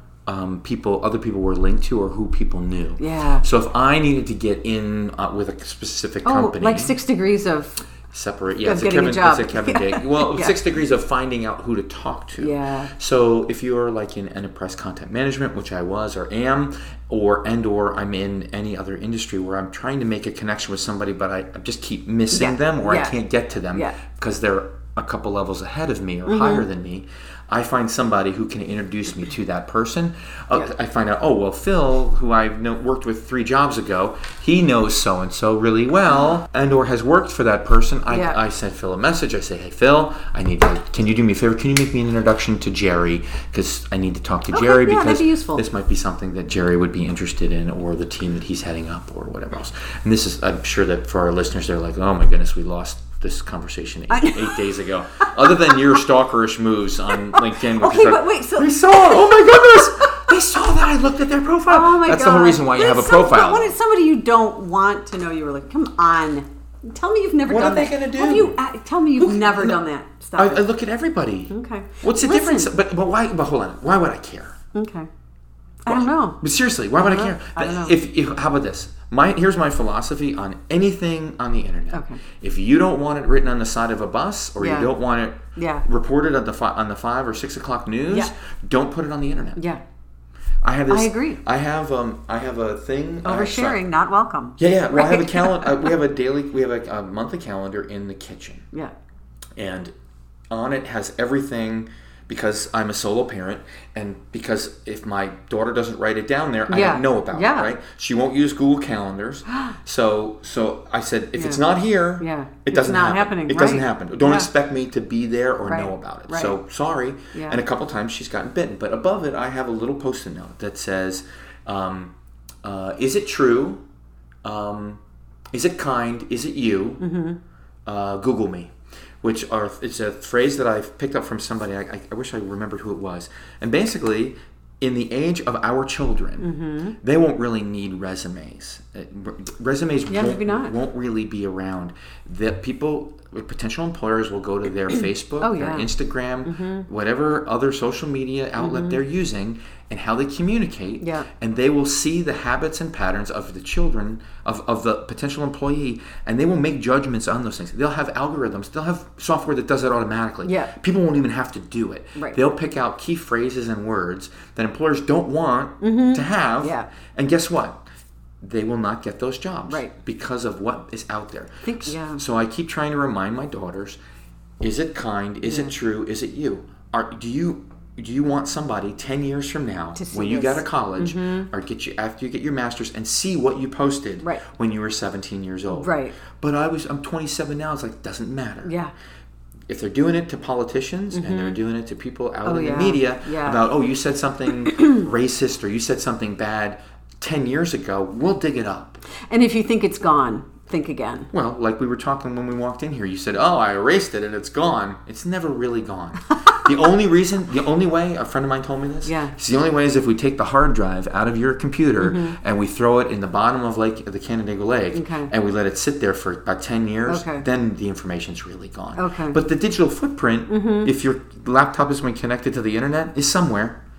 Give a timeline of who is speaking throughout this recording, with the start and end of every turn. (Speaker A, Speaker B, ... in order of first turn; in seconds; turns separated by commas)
Speaker A: 0.3-6.9, Speaker B: 3.0-3.4, Speaker B: 6.2-7.8, Speaker A: 8.1-63.7, Speaker B: 8.6-10.5, Speaker B: 12.4-12.9, Speaker B: 22.3-23.2, Speaker B: 23.7-24.0, Speaker B: 26.3-26.6, Speaker B: 38.1-38.4, Speaker B: 44.5-45.6, Speaker B: 54.1-54.6, Speaker B: 55.2-55.8, Speaker B: 57.3-60.3, Speaker B: 61.7-70.6, Speaker A: 67.5-68.6, Speaker A: 69.2-69.8, Speaker A: 70.3-74.5, Speaker B: 71.5-72.7, Speaker B: 74.7-75.1, Speaker B: 75.8-76.4, Speaker A: 75.9-89.6, Speaker B: 77.0-78.0, Speaker B: 81.9-82.2, Speaker B: 84.6-84.9, Speaker B: 85.5-85.8, Speaker B: 89.5-89.8, Speaker A: 90.6-93.8, Speaker B: 90.9-91.4, Speaker B: 93.2-95.9, Speaker A: 94.6-98.7, Speaker A: 99.5-99.9, Speaker A: 100.5-123.8, Speaker B: 106.7-107.7, Speaker B: 111.3-111.6, Speaker B: 112.2-114.5, Speaker B: 115.7-116.6, Speaker B: 117.3-117.6, Speaker A: 124.4-125.0, Speaker A: 125.5-127.0, Speaker B: 127.0-127.4, Speaker A: 127.8-136.5, Speaker B: 136.4-136.9, Speaker A: 137.0-167.8, Speaker B: 140.1-140.8, Speaker B: 145.4-145.9, Speaker B: 146.4-146.9, Speaker B: 148.6-149.0, Speaker B: 151.0-151.3, Speaker B: 160.4-160.7, Speaker B: 165.8-166.9, Speaker A: 168.4-174.0, Speaker B: 169.7-169.9, Speaker B: 171.6-172.2, Speaker A: 174.6-188.7, Speaker B: 175.4-175.7, Speaker B: 179.9-181.5, Speaker B: 185.7-186.2, Speaker B: 188.6-188.9, Speaker A: 189.7-199.0, Speaker B: 191.1-191.6, Speaker B: 192.4-193.6, Speaker B: 199.3-201.3, Speaker A: 201.3-223.8, Speaker B: 209.0-209.3, Speaker B: 212.0-212.4, Speaker B: 214.9-215.3, Speaker B: 217.1-217.4, Speaker B: 218.9-219.4, Speaker B: 220.5-220.9